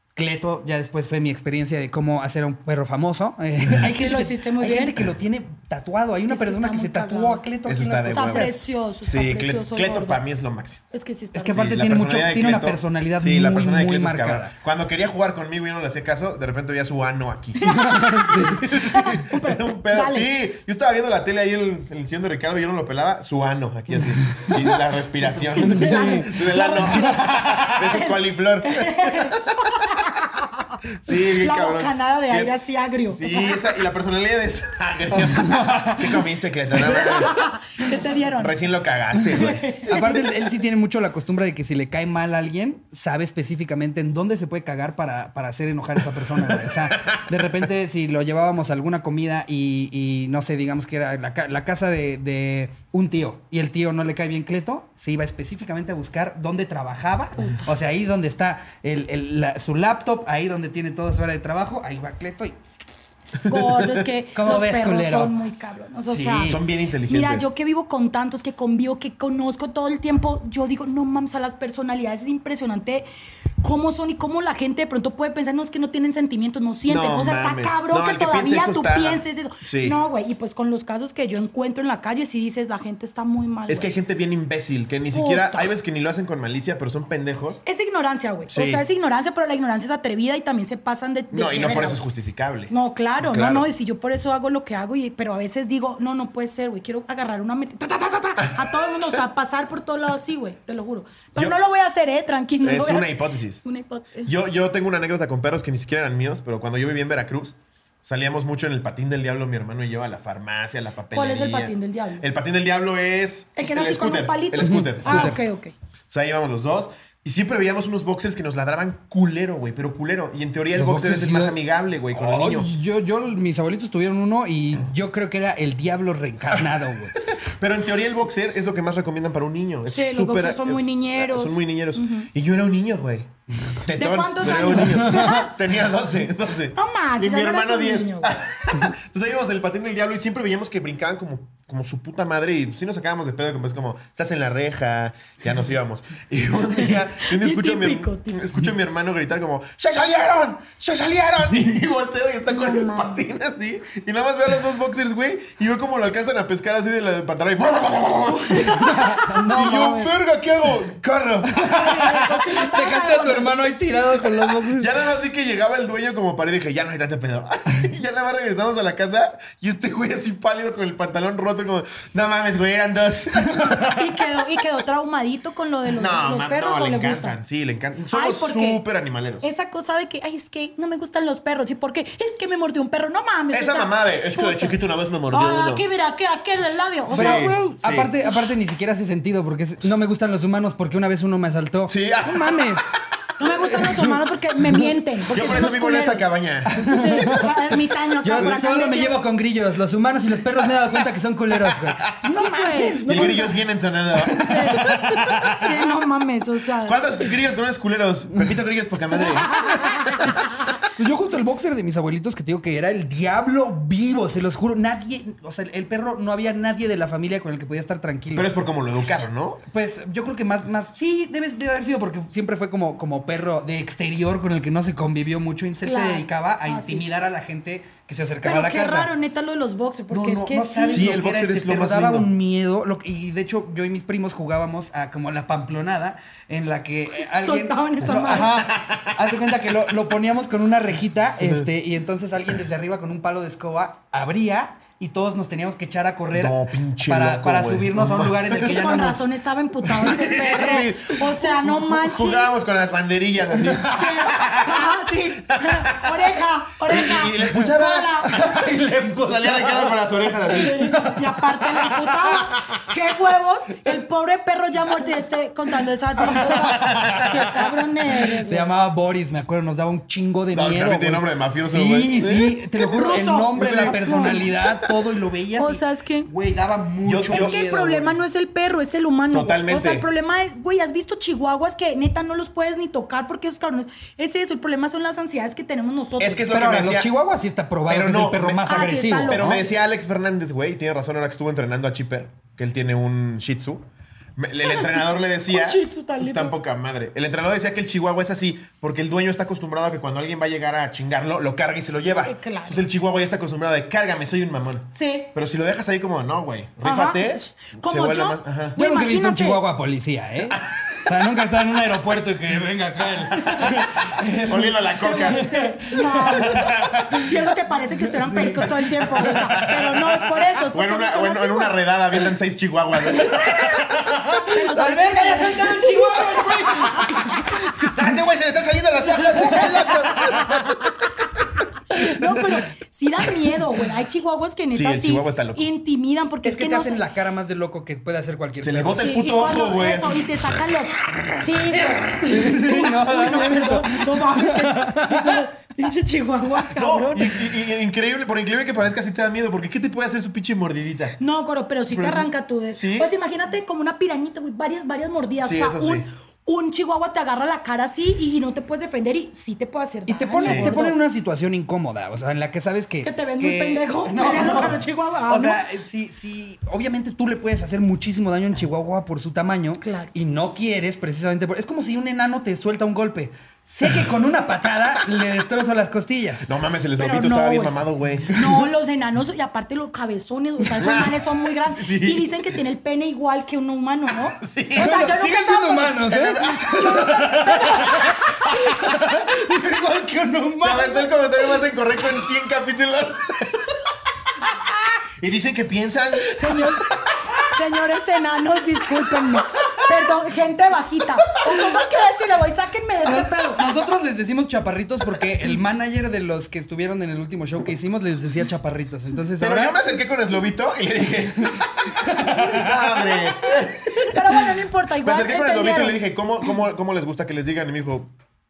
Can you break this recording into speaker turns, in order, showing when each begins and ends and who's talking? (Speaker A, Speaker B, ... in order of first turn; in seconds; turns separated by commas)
Speaker A: 0.1-8.6, Speaker B: 4.0-5.0, Speaker B: 6.3-7.4, Speaker C: 7.7-8.6, Speaker B: 8.1-10.2, Speaker C: 9.1-10.8, Speaker B: 10.9-11.7, Speaker A: 11.3-14.5, Speaker C: 11.5-17.7, Speaker A: 17.6-18.8, Speaker B: 17.6-20.3, Speaker C: 18.4-29.9, Speaker B: 25.6-33.6, Speaker A: 25.6-26.3, Speaker A: 27.0-27.8, Speaker C: 31.0-32.5, Speaker C: 33.1-37.4, Speaker A: 35.3-36.0, Speaker B: 36.8-38.6, Speaker C: 38.4-39.9, Speaker B: 39.2-40.3, Speaker A: 39.9-62.5, Speaker C: 46.5-47.2, Speaker B: 63.5-73.1, Speaker A: 64.3-65.4, Speaker A: 66.1-66.6, Speaker C: 66.5-67.5, Speaker B: 73.6-83.9, Speaker C: 76.9-80.0, Speaker C: 83.7-87.6, Speaker B: 85.1-85.7, Speaker B: 87.7-92.0, Speaker C: 88.5-88.8, Speaker C: 91.3-93.7, Speaker B: 92.7-104.3, Speaker C: 102.6-103.6, Speaker C: 104.2-115.4, Speaker B: 111.1-112.2, Speaker B: 113.6-115.7, Speaker A: 114.6-115.4, Speaker C: 116.1-122.7, Speaker A: 120.8-121.6, Speaker A: 122.1-127.2, Speaker C: 126.5-133.3, Speaker B: 129.9-132.3, Speaker C: 133.8-161.8, Speaker B: 133.9-135.5, Speaker A: 134.9-135.4, Speaker B: 136.8-138.3, Speaker B: 146.8-148.4, Speaker B: 152.5-153.2, Speaker A: 158.6-160.1, Speaker A: 161.5-164.9, Speaker B: 161.6-163.6, Speaker C: 164.5-173.8, Speaker A: 173.5-174.0, Speaker B: 173.9-177.4, Speaker C: 175.9-179.5, Speaker B: 178.1-178.8, Speaker B: 179.4-184.8, Speaker C: 183.5-185.8, Speaker B: 185.3-187.5, Speaker C: 187.0-188.1, Speaker A: 187.1-192.9, Speaker C: 191.9-192.8, Speaker B: 193.4-196.3, Speaker A: 193.7-194.1, Speaker C: 195.3-196.8, Speaker A: 196.7-197.6, Speaker B: 196.8-199.2, Speaker A: 198.2-203.5, Speaker C: 201.6-202.2, Speaker B: 202.2-203.6, Speaker C: 203.1-204.5, Speaker A: 204.2-205.7, Speaker B: 204.4-207.1, Speaker C: 206.8-209.8, Speaker B: 209.2-210.3, Speaker A: 209.6-210.3, Speaker A: 211.0-218.5, Speaker C: 218.3-219.6, Speaker A: 219.7-229.1, Speaker B: 225.8-227.0, Speaker B: 228.4-231.1, Speaker A: 230.1-249.3, Speaker C: 230.9-232.3, Speaker B: 237.2-238.5, Speaker C: 238.3-239.1, Speaker C: 246.3-248.7, Speaker B: 248.6-252.5, Speaker A: 249.8-250.8, Speaker C: 250.3-254.1, Speaker A: 253.6-254.8, Speaker B: 253.9-258.3, Speaker C: 255.5-256.1, Speaker C: 256.9-260.9, Speaker A: 258.3-260.0, Speaker B: 260.5-268.7, Speaker A: 260.5-262.2, Speaker A: 266.2-278.2, Speaker C: 266.4-267.4, Speaker C: 270.5-272.6, Speaker B: 272.9-274.5, Speaker C: 273.5-274.4, Speaker B: 275.6-276.3, Speaker C: 277.1-277.5, Speaker B: 277.3-286.4, Speaker C: 279.3-280.1, Speaker C: 286.2-287.1, Speaker A: 286.5-289.7, Speaker C: 287.9-308.8, Speaker B: 288.7-289.6, Speaker B: 294.6-296.5, Speaker B: 302.2-302.8, Speaker B: 304.9-305.3, Speaker B: 306.8-309.6, Speaker A: 308.8-317.3, Speaker C: 314.3-315.5, Speaker B: 315.0-321.8, Speaker C: 316.2-317.2, Speaker A: 318.0-319.9, Speaker C: 319.2-320.0, Speaker C: 320.7-323.7, Speaker A: 323.2-328.1, Speaker B: 324.4-327.5, Speaker C: 327.9-330.9, Speaker A: 329.4-330.7, Speaker B: 329.4-329.7, Speaker B: 331.9-337.0, Speaker A: 332.0-332.6, Speaker C: 334.7-335.7, Speaker A: 336.4-339.3, Speaker C: 338.6-340.3, Speaker B: 339.0-347.4, Speaker A: 341.7-345.4, Speaker C: 346.7-351.2, Speaker B: 351.2-361.0, Speaker C: 351.9-353.1, Speaker C: 355.4-356.1, Speaker A: 360.1-376.5, Speaker C: 360.4-360.8, Speaker B: 363.0-365.6, Speaker B: 369.8-370.1, Speaker C: 376.4-378.4, Speaker B: 377.0-386.1, Speaker C: 380.8-382.4, Speaker C: 384.4-384.9, Speaker A: 384.8-391.1, Speaker C: 386.1-387.3, Speaker B: 386.7-388.0, Speaker C: 390.6-393.8, Speaker C: 395.2-396.4, Speaker B: 396.4-403.7, Speaker A: 403.0-409.8, Speaker C: 409.4-414.2, Speaker A: 412.0-412.8, Speaker B: 413.4-416.0, Speaker C: 415.0-418.1